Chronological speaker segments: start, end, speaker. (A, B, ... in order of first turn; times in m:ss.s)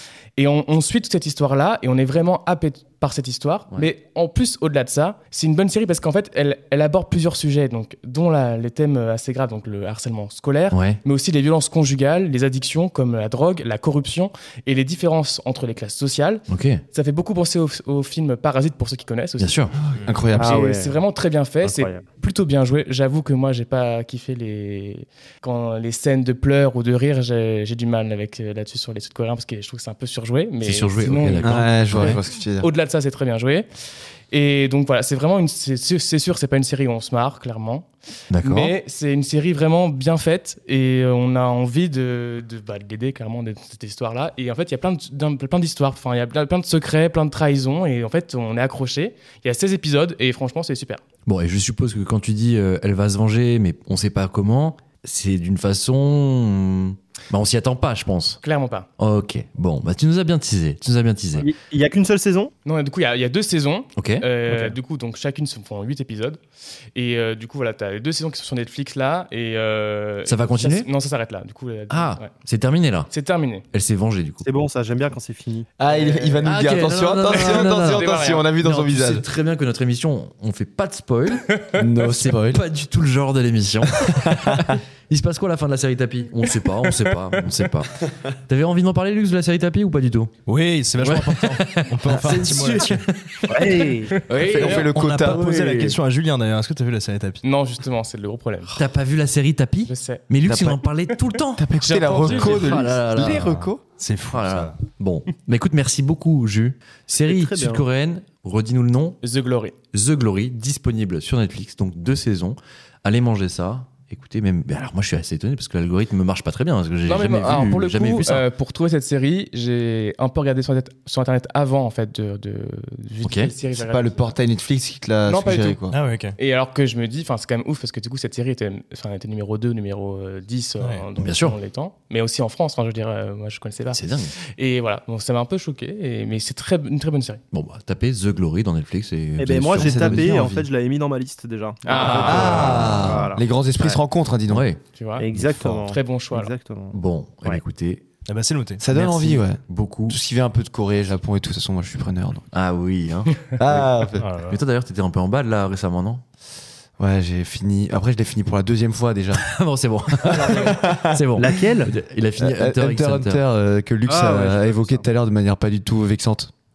0:00.4-0:19.7 A
0:10.7-0:11.0 B
0:16.5-0:16.8 B
0:19.4-0:19.7 B
0:19.9-0:20.6 C
0:20.3-0:33.7 A
0:20.4-0:21.0 D
0:21.6-0:22.0 D
0:30.6-0:32.2 B
0:31.4-0:32.7 C
0:34.3-0:37.9 A
0:38.3-0:38.7 B
0:38.4-0:51.0 A
0:51.3-0:58.4 B
0:58.4-0:58.9 A
0:59.0-1:01.5 B
1:01.4-1:02.5 D
1:02.6-1:06.4 A
1:04.0-1:04.2 B
1:04.5-1:04.8 D
1:07.0-1:12.3 A
1:10.3-1:10.9 B
1:11.9-1:13.1 B
1:13.1-1:13.7 A
1:13.7-1:14.5 B
1:14.4-1:15.7 D
1:15.8-1:19.3 C
1:15.9-1:16.6 A
1:16.4-1:30.3 B
1:17.3-1:18.5 A
1:21.8-1:22.6 C
1:24.0-1:24.8 C
1:26.7-1:27.1 A
1:30.5-1:33.0 E
1:31.0-1:34.9 B
1:33.5-1:34.1 D
1:33.6-1:34.2 A
1:34.3-1:35.7 C
1:34.6-1:37.4 E
1:37.4-1:38.8 A
1:38.7-1:41.6 B
1:39.9-1:40.3 A
1:40.4-1:40.8 C
1:41.6-1:43.8 C
1:41.8-1:42.8 A
1:42.2-1:43.5 B
1:43.3-1:44.8 E
1:44.3-1:49.2 B
1:47.2-1:47.9 D
1:49.2-1:49.8 A
1:49.9-1:58.4 B
1:57.0-2:04.4 A
2:03.2-2:03.5 B
2:03.8-2:06.0 C
2:05.2-2:05.8 A
2:05.9-2:06.4 E
2:06.4-2:14.0 A
2:10.8-2:11.1 E
2:11.2-2:11.6 B
2:13.9-2:14.3 B
2:14.6-2:17.4 A
2:17.5-2:20.3 B
2:19.4-2:24.0 D
2:19.7-2:20.7 C
2:21.8-2:22.8 A
2:21.9-2:23.3 B
2:22.2-2:24.7 C
2:24.5-2:24.8 B
2:25.0-2:25.3 A
2:25.2-2:27.6 D
2:25.4-2:25.8 B
2:25.8-2:26.5 A
2:26.9-2:28.0 B
2:28.3-2:28.8 E
2:28.8-2:32.5 C
2:28.9-2:30.2 B
2:32.5-2:33.4 B
2:33.6-2:34.3 C
2:34.4-2:36.2 B
2:37.0-2:39.4 C
2:39.3-2:43.5 B
2:40.2-2:41.7 C
2:41.4-2:41.9 D
2:42.4-2:46.5 C
2:44.1-2:44.8 D
2:44.1-2:45.0 E